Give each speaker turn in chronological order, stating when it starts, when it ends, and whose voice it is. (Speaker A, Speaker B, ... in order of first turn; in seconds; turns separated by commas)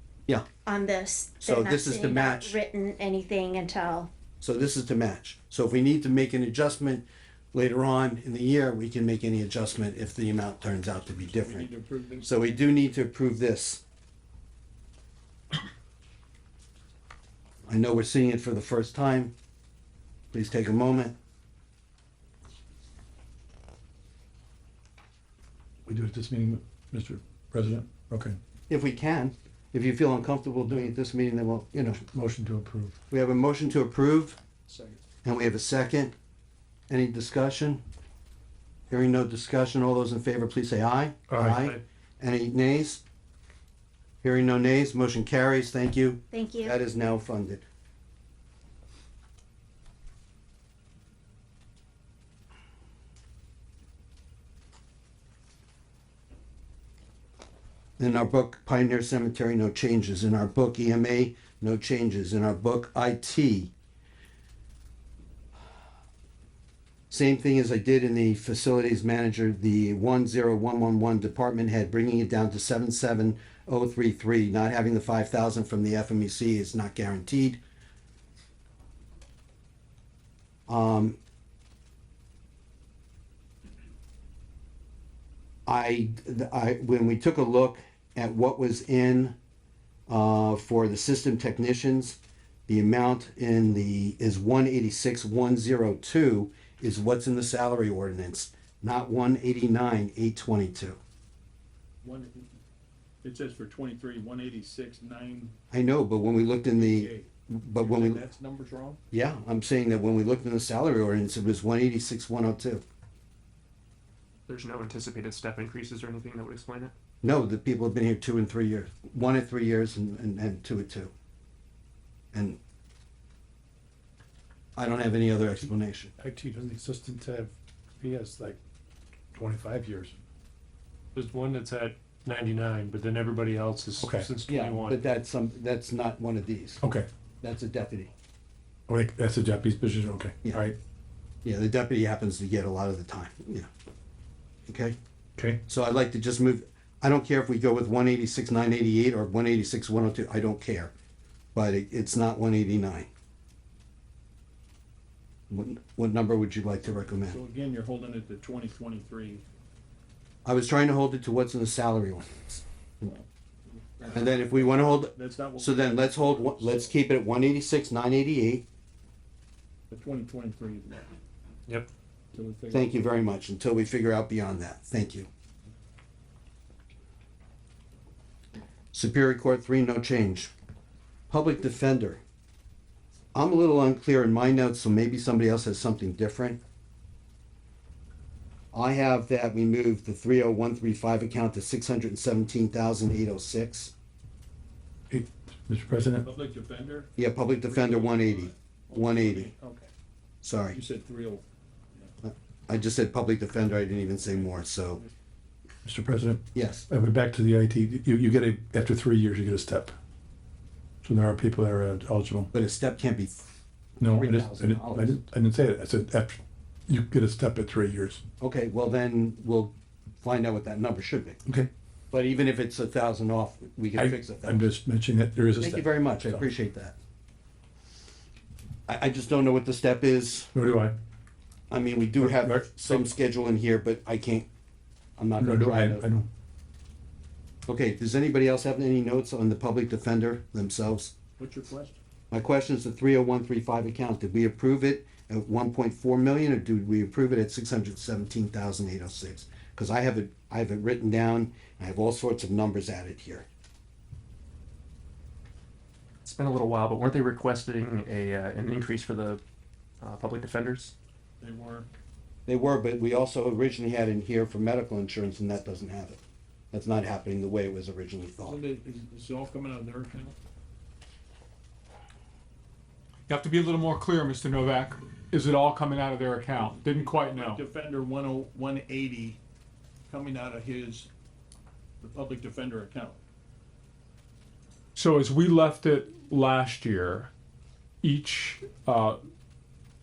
Speaker A: 0.7-4.1, Speaker B: 1.4-2.6, Speaker B: 4.4-11.7, Speaker C: 11.3-12.6, Speaker B: 12.2-13.8, Speaker B: 17.7-19.3, Speaker B: 20.3-21.1, Speaker D: 25.9-28.4, Speaker B: 28.7-32.0, Speaker D: 32.1-32.9, Speaker B: 33.1-34.4, Speaker B: 35.2-36.1, Speaker B: 36.9-37.8, Speaker B: 38.9-43.0, Speaker D: 41.3-41.6, Speaker B: 44.2-47.6, Speaker A: 46.3-46.8, Speaker B: 58.0-63.7, Speaker B: 67.1-77.6, Speaker B: 80.7-81.2, Speaker B: 85.7-89.3, Speaker B: 90.1-101.0, Speaker C: 102.0-102.5, Speaker C: 103.2-105.5, Speaker B: 105.7-108.2, Speaker C: 106.7-109.0, Speaker B: 109.1-112.8, Speaker E: 114.5-116.9, Speaker B: 117.2-121.1, Speaker B: 122.3-122.6, Speaker B: 124.8-126.1, Speaker D: 126.2-128.6, Speaker D: 129.3-130.2, Speaker F: 131.2-135.0, Speaker D: 134.0-134.3, Speaker B: 134.5-136.8, Speaker D: 136.8-137.1, Speaker B: 137.4-138.1, Speaker D: 138.9-140.8, Speaker B: 141.4-143.7, Speaker B: 144.7-145.0, Speaker B: 145.7-150.9, Speaker B: 151.5-153.1, Speaker B: 155.5-157.4, Speaker C: 157.3-159.4, Speaker B: 160.4-162.6, Speaker C: 164.0-166.9, Speaker B: 164.1-168.6, Speaker C: 169.9-171.1, Speaker C: 172.3-173.0, Speaker B: 172.7-175.3, Speaker B: 178.9-180.5, Speaker B: 181.3-182.2, Speaker B: 183.3-186.6, Speaker B: 188.7-193.9, Speaker D: 195.1-196.3, Speaker C: 195.9-199.9, Speaker B: 197.2-199.5, Speaker B: 200.4-200.8, Speaker C: 200.7-202.1, Speaker B: 202.2-205.0, Speaker D: 205.8-210.0, Speaker B: 206.5-206.9, Speaker D: 211.0-212.5, Speaker B: 212.5-213.5, Speaker B: 214.0-215.2, Speaker D: 214.0-218.2, Speaker B: 218.4-221.4, Speaker B: 222.1-224.6, Speaker D: 224.0-226.4, Speaker B: 225.6-226.9, Speaker B: 228.9-230.5, Speaker D: 230.5-231.0, Speaker B: 231.7-234.5, Speaker D: 232.2-233.0, Speaker B: 235.2-236.0, Speaker D: 235.4-236.3, Speaker B: 237.7-241.2, Speaker C: 241.4-242.0, Speaker B: 242.3-253.5, Speaker E: 256.2-259.4, Speaker E: 260.0-260.9, Speaker C: 261.4-261.9, Speaker B: 262.5-266.2, Speaker B: 266.7-268.6, Speaker C: 268.5-270.4, Speaker G: 273.3-277.6, Speaker C: 276.8-279.4, Speaker C: 280.1-281.1, Speaker C: 282.0-283.2, Speaker G: 284.9-287.3, Speaker G: 288.0-289.2